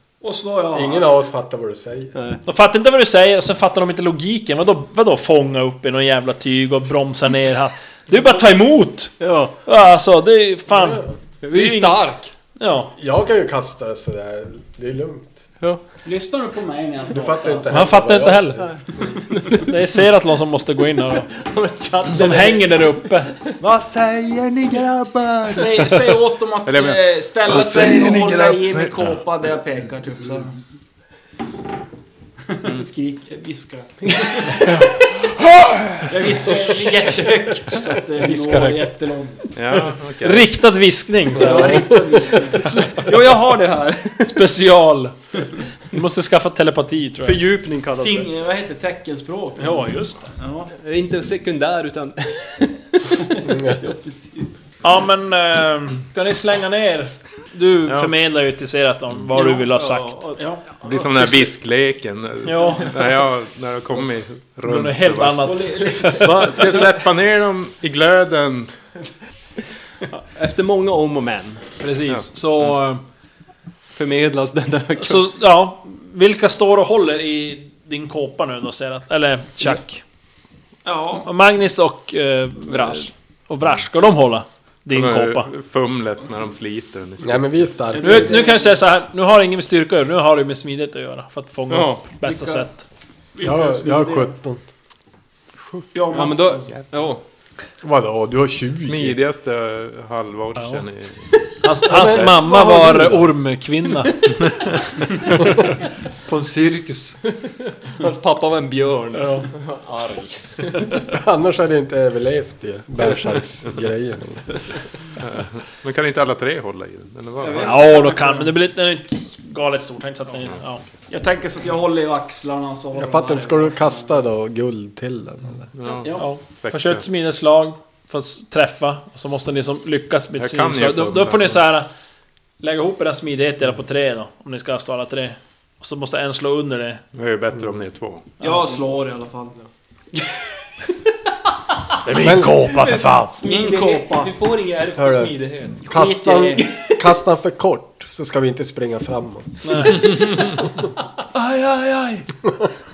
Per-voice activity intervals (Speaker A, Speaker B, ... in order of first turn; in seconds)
Speaker A: 0.2-1.1, 16.0-17.7, 25.5-30.5, 32.5-34.9, 36.1-39.5, 41.3-43.5, 48.0-50.7, 53.3-54.5, 65.4-66.8, 80.8-81.2, 87.9-88.7, 93.3-94.3, 95.9-96.8, 117.4-118.5, 121.1-124.1, 125.9-126.2, 138.4-139.6, 143.4-144.3, 145.9-146.9
Speaker B: 0.7-2.1, 10.7-11.2, 12.9-15.4, 17.1-19.1, 41.4-42.4, 53.5-53.7, 87.2-88.3, 93.4-94.6, 97.8-99.2, 101.9-103.3, 111.1-114.5, 123.0-125.7, 142.1-142.8, 144.9-150.0
Speaker C: 2.1-2.4, 9.2-9.5, 11.4-12.3, 18.6-19.7, 21.1-22.8, 23.3-26.1, 34.3-34.7, 43.0-44.3, 47.2-48.3, 50.7-53.4, 59.3-60.3, 66.2-66.9, 70.2-71.7, 73.9-75.3, 82.6-83.1, 91.7-92.7, 96.1-97.2, 107.4-110.9, 142.6-145.9
Speaker D: 2.4-12.0, 12.6-12.9, 17.7-18.7, 19.5-21.3, 22.1-23.4, 35.5-36.0, 38.2-38.9, 40.2-41.9, 42.5-43.1, 44.2-45.1, 45.9-47.4, 49.6-50.3, 54.8-60.5, 62.4-63.0, 64.6-66.7, 71.8-73.0, 75.0-80.0, 81.2-85.5, 88.0-92.8, 100.6-100.8, 101.6-104.8, 105.3-105.7, 106.2-107.2, 109.1-109.5, 117.6-120.8, 126.2-131.9, 132.6-137.0, 142.4-143.3, 149.6-150.3, 151.3-152.3
Speaker E: 26.6-29.1, 39.5-40.5, 60.8-68.7, 84.9-87.6, 98.8-101.2, 115.2-117.8, 125.7-127.0, 130.4-131.6, 137.1-138.2